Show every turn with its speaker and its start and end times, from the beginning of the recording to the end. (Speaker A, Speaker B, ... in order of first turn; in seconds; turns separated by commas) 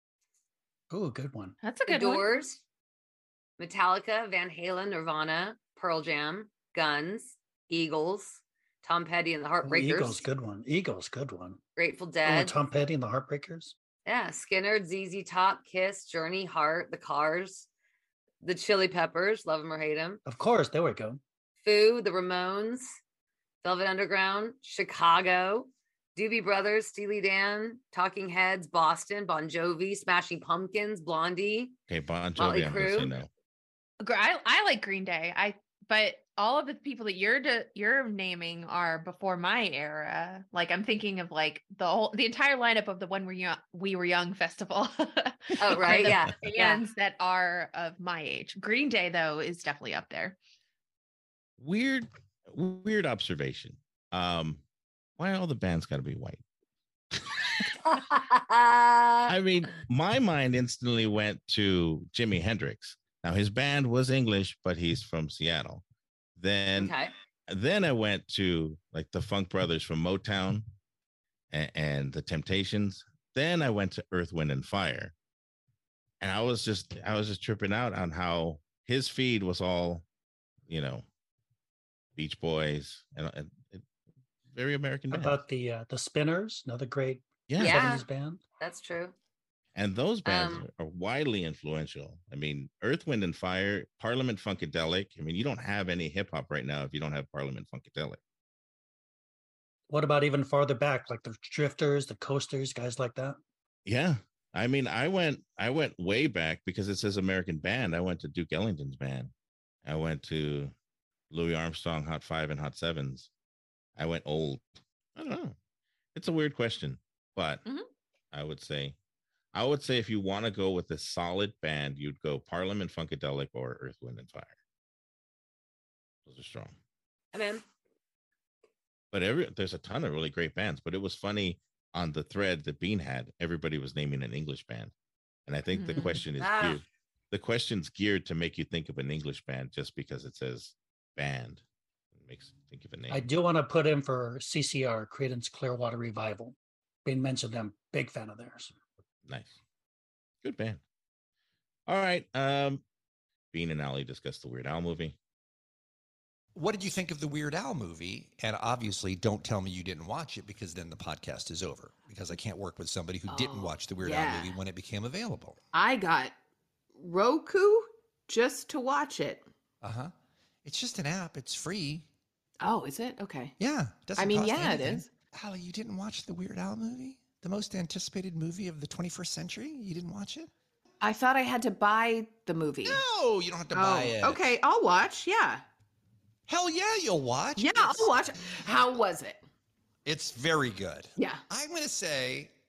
Speaker A: 0.9-1.6, Speaker B: 1.6-2.3, Speaker C: 1.9-2.6, Speaker C: 3.6-10.2, Speaker A: 9.6-11.6, Speaker C: 11.8-12.5, Speaker A: 12.2-13.7, Speaker C: 14.1-17.7, Speaker C: 18.4-20.2, Speaker A: 20.2-21.2, Speaker C: 21.6-22.9, Speaker C: 23.6-31.7, Speaker D: 31.9-33.3, Speaker C: 32.4-33.1, Speaker B: 34.0-50.4, Speaker C: 45.6-46.8, Speaker D: 45.8-46.2, Speaker D: 51.6-54.6, Speaker D: 55.2-56.4, Speaker C: 57.9-59.3, Speaker D: 59.3-65.8, Speaker D: 66.4-66.9, Speaker C: 66.8-67.1, Speaker D: 67.5-70.7, Speaker D: 71.5-75.1, Speaker D: 76.2-80.0, Speaker D: 80.7-81.0, Speaker D: 82.2-83.8, Speaker D: 84.5-85.4, Speaker A: 85.1-88.4, Speaker D: 87.5-87.9, Speaker C: 87.6-88.0, Speaker C: 88.6-89.1, Speaker D: 89.7-98.2, Speaker C: 90.2-90.7, Speaker A: 99.9-103.4, Speaker D: 103.8-109.3, Speaker D: 109.8-110.7, Speaker D: 111.3-113.3, Speaker D: 114.0-115.5, Speaker D: 116.1-117.6, Speaker D: 118.3-119.0, Speaker D: 119.5-124.5, Speaker D: 126.2-126.7, Speaker C: 127.3-127.6, Speaker D: 129.1-134.9, Speaker D: 135.5-141.6, Speaker B: 135.8-136.1, Speaker C: 135.9-136.8, Speaker D: 142.2-143.2, Speaker A: 143.1-148.7, Speaker D: 149.2-149.6, Speaker D: 150.4-150.8, Speaker D: 151.9-152.8, Speaker D: 153.5-155.1, Speaker E: 156.5-165.6, Speaker F: 163.3-164.6, Speaker F: 165.7-166.3, Speaker F: 166.9-169.5, Speaker E: 169.8-170.1, Speaker E: 170.6-172.0, Speaker F: 172.6-173.5, Speaker E: 173.6-180.5, Speaker F: 174.2-175.1, Speaker F: 181.0-183.0, Speaker E: 182.8-184.6, Speaker F: 183.7-185.6, Speaker E: 186.5-188.1, Speaker F: 187.6-189.4, Speaker E: 190.0-192.5, Speaker F: 191.2-191.4